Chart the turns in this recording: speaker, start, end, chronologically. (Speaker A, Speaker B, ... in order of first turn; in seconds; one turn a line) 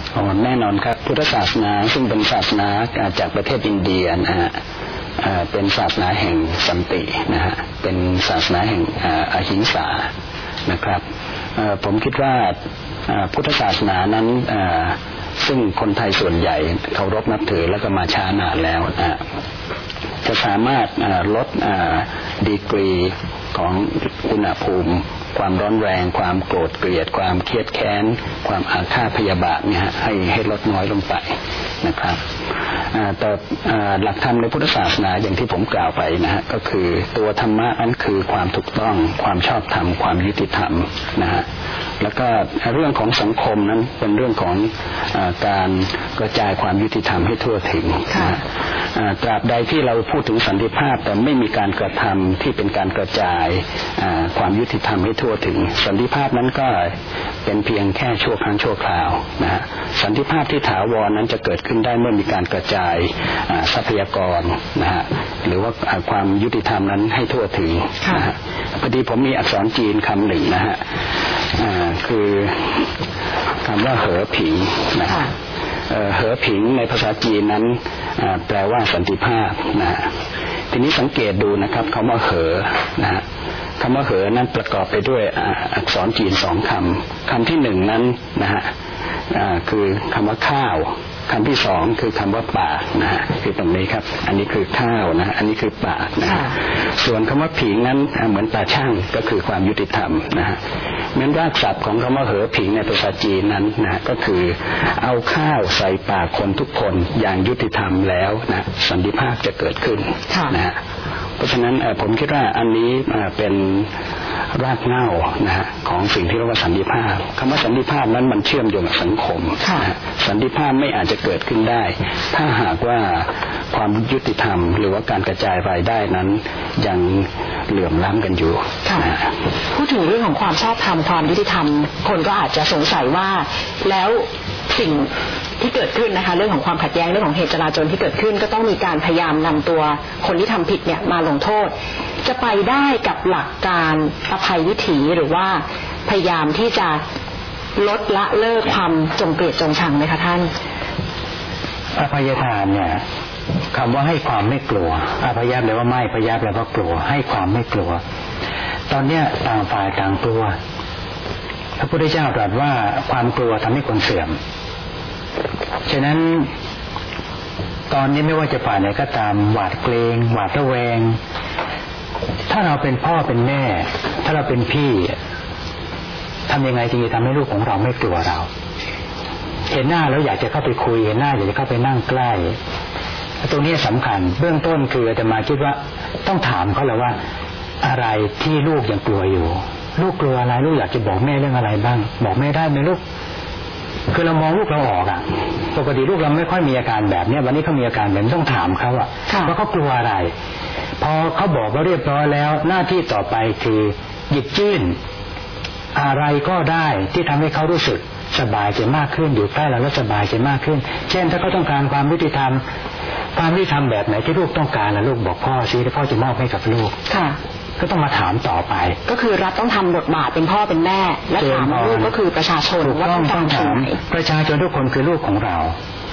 Speaker A: 0.1-4.5
Speaker A: 5.2-10.1
Speaker A: 10.7-11.0
Speaker A: 11.6-19.2
Speaker A: 20.2-31.3
Speaker A: 31.8-32.2
Speaker A: 32.9-41.5
Speaker A: 42.0-48.4
Speaker A: 49.0-56.9
Speaker A: 57.5-70.8
Speaker B: 68.0-68.3
Speaker A: 71.5-72.9
Speaker A: 73.6-75.2
Speaker A: 75.9-80.1
Speaker A: 80.7-83.2
Speaker A: 83.8-88.7
Speaker A: 89.3-100.6
Speaker B: 96.2-96.5
Speaker A: 101.2-110.8
Speaker B: 110.3-110.5
Speaker A: 111.4-113.9
Speaker A: 114.5-129.2
Speaker B: 119.6-119.9
Speaker B: 128.8-129.1
Speaker B: 129.7-147.0
Speaker B: 147.8-150.5
Speaker C: 151.9-153.0
Speaker C: 153.7-158.0
Speaker C: 158.9-160.5
Speaker C: 161.8-164.4
Speaker C: 165.9-166.5
Speaker C: 167.9-171.2
Speaker C: 172.5-175.1
Speaker C: 176.5-178.5
Speaker C: 179.7-182.6
Speaker C: 183.4-187.1
Speaker C: 187.8-193.0
Speaker C: 194.1-200.3
Speaker B: 199.3-199.5
Speaker C: 201.0-204.9
Speaker C: 205.9-212.6
Speaker C: 213.3-216.9
Speaker B: 217.1-217.4
Speaker C: 217.8-219.0
Speaker B: 219.1-224.0
Speaker C: 221.4-222.1
Speaker C: 222.8-225.7